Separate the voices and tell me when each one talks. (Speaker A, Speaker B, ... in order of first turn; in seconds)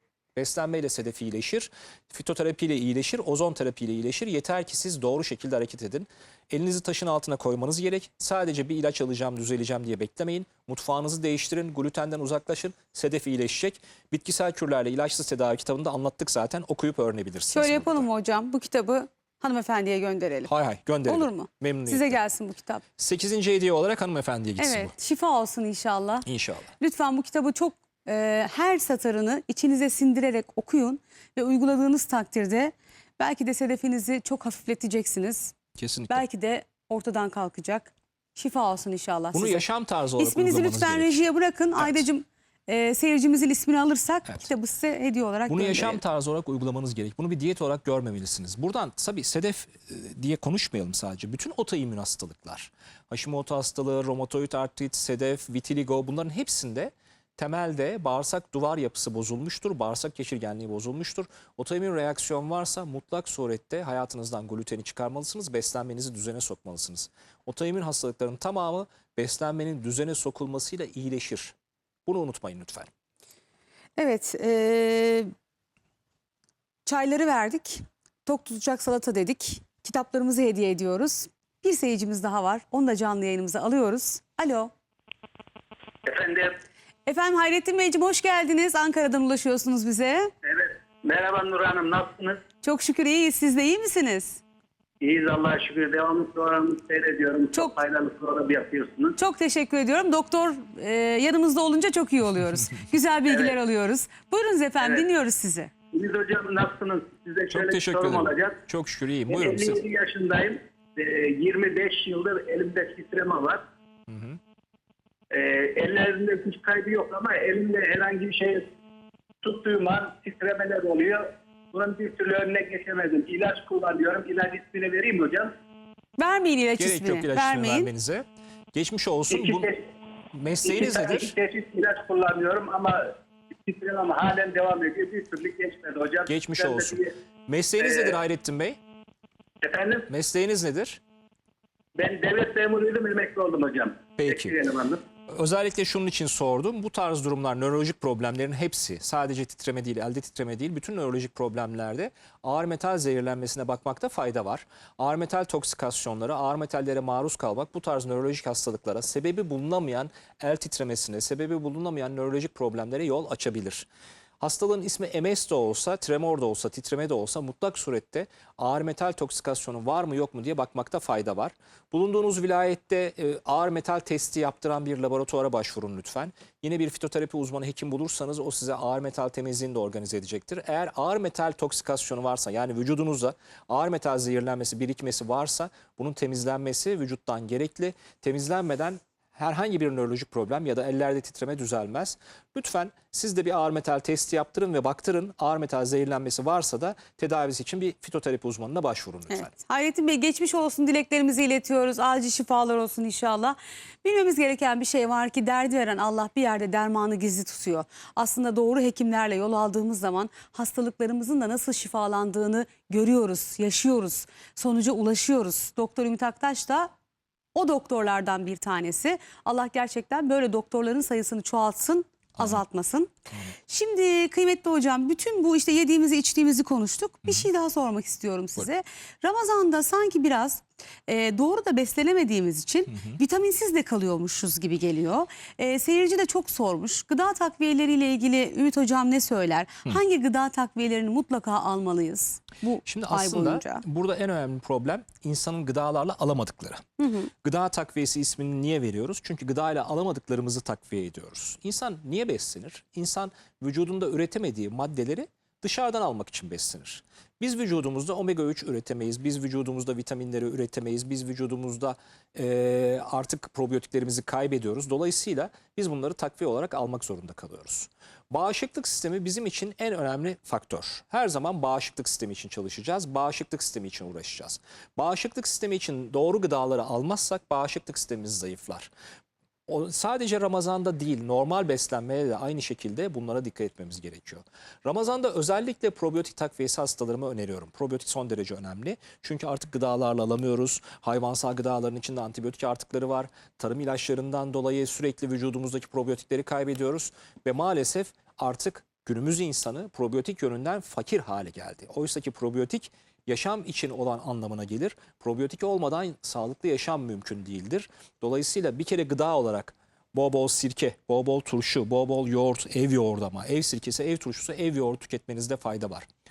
Speaker A: 0.3-18.1, 20.5-22.2, 23.0-24.9, 26.2-26.7, 35.8-36.2, 39.3-41.2, 41.8-42.0, 45.5-71.5, 72.1-72.9, 107.5-109.8, 114.1-114.4, 126.8-129.7, 130.3-131.3, 136.3-138.8, 140.1-141.0, 144.2-144.6, 145.3-163.9, 164.4-199.5, 232.9-233.2, 242.8-246.8, 247.4-278.9, 279.7-316.1
Speaker B: 17.5-20.5, 21.1-22.8, 24.6-26.3, 26.8-35.6, 36.1-39.6, 40.2-46.0, 74.0-75.3, 76.8-84.7, 87.1-90.3, 92.6-94.4, 99.2-105.7, 126.2-127.9, 199.3-216.9, 217.6-223.1, 223.7-243.8, 247.0-247.3
Speaker C: 86.0-86.6, 90.4-92.4, 95.0-99.2, 103.3-103.6, 105.9-108.6, 109.3-113.6, 115.3-118.7, 119.4-125.5, 129.3-129.8, 130.6-133.1, 133.6-137.1, 137.8-138.2, 139.6-140.1, 142.0-145.0